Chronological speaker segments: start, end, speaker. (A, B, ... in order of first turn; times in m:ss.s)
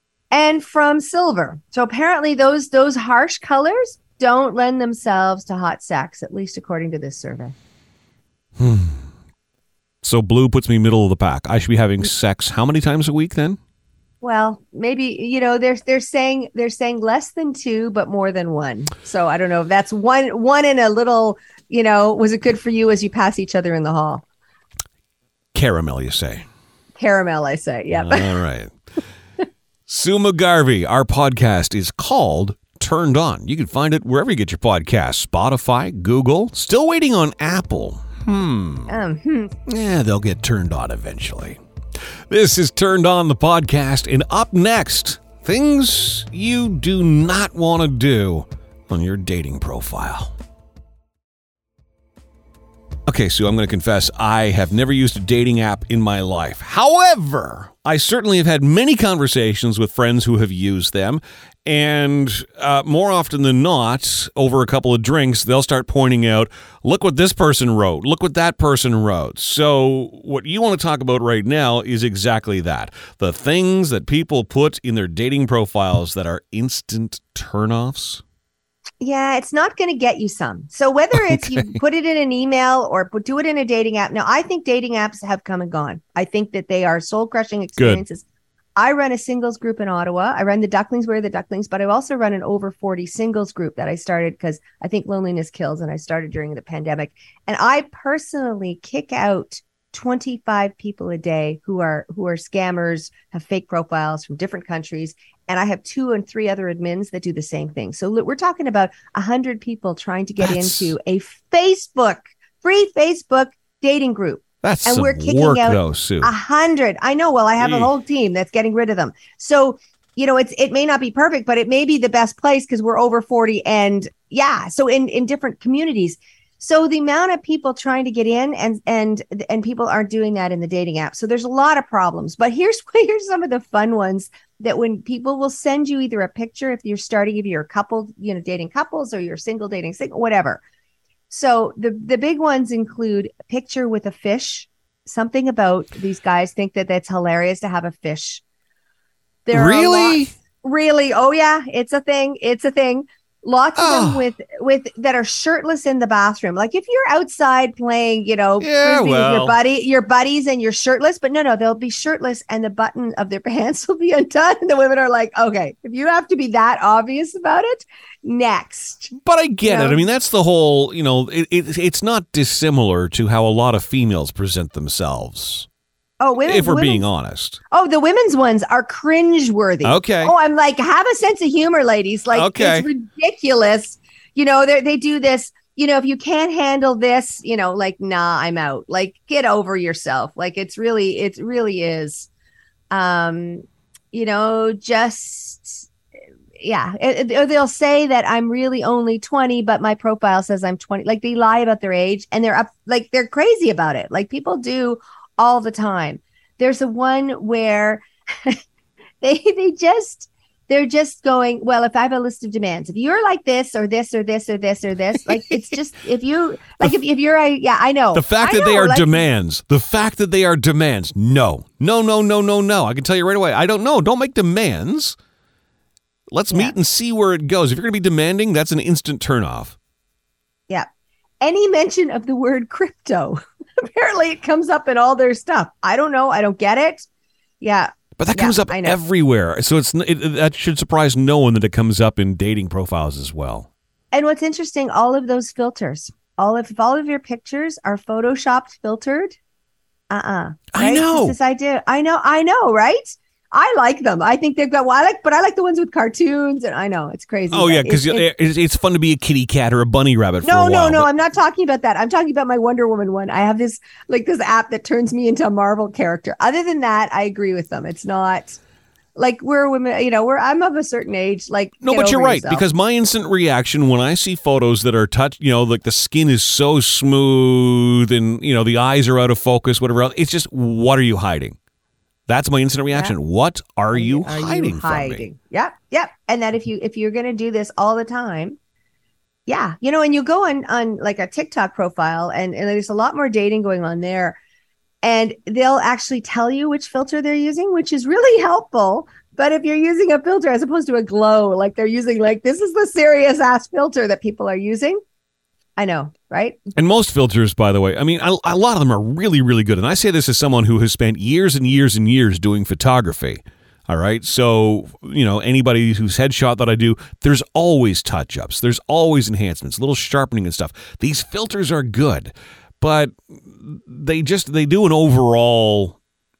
0:00.3-0:07.5 A
0:08.6-0:09.0 B
0:10.0-0:13.6 B
0:14.2-0:24.2 A
0:25.5-0:26.4 B
0:27.0-0:28.4 A
0:27.9-0:28.7 B
0:29.9-0:38.9 B
0:38.9-0:39.5 A
0:39.6-0:41.6 B
0:42.3-0:50.3 B
0:53.1-1:18.2 B
1:19.0-1:28.2 A
1:21.1-1:21.7 B
1:27.8-1:28.0 B
1:28.8-2:20.6 A
1:50.4-1:50.9 B
1:54.6-1:56.3 B
1:57.6-1:57.9 B
2:21.3-2:28.4 A
2:29.4-2:49.1 A
2:29.5-2:30.3 B
2:33.8-2:34.2 B
2:38.6-2:39.6 B
2:49.1-2:55.7 B
2:49.6-2:50.0 A
2:56.2-2:57.0 A
2:56.4-2:57.6 B
2:57.7-3:12.3 A
2:59.8-3:00.3 B
3:02.3-3:02.9 B
3:12.9-3:15.9 A
3:16.6-3:28.6 A
3:29.2-3:39.2 A
3:38.1-3:45.2 B
3:46.3-3:49.8 B
3:46.5-3:46.8 A
3:51.4-3:57.1 A
3:57.6-3:59.0 A
3:58.2-4:03.7 B
4:04.1-4:09.4 A
4:10.1-4:18.2 A
4:10.7-4:11.3 B
4:17.5-4:21.1 B
4:20.4-4:28.6 A
4:29.2-4:32.6 A
4:31.8-4:41.6 B
4:42.3-4:45.2 B
4:43.9-4:48.6 A
4:49.5-4:54.4 A
4:55.0-5:05.0 A
5:05.8-5:06.6 A
5:06.7-5:26.0 B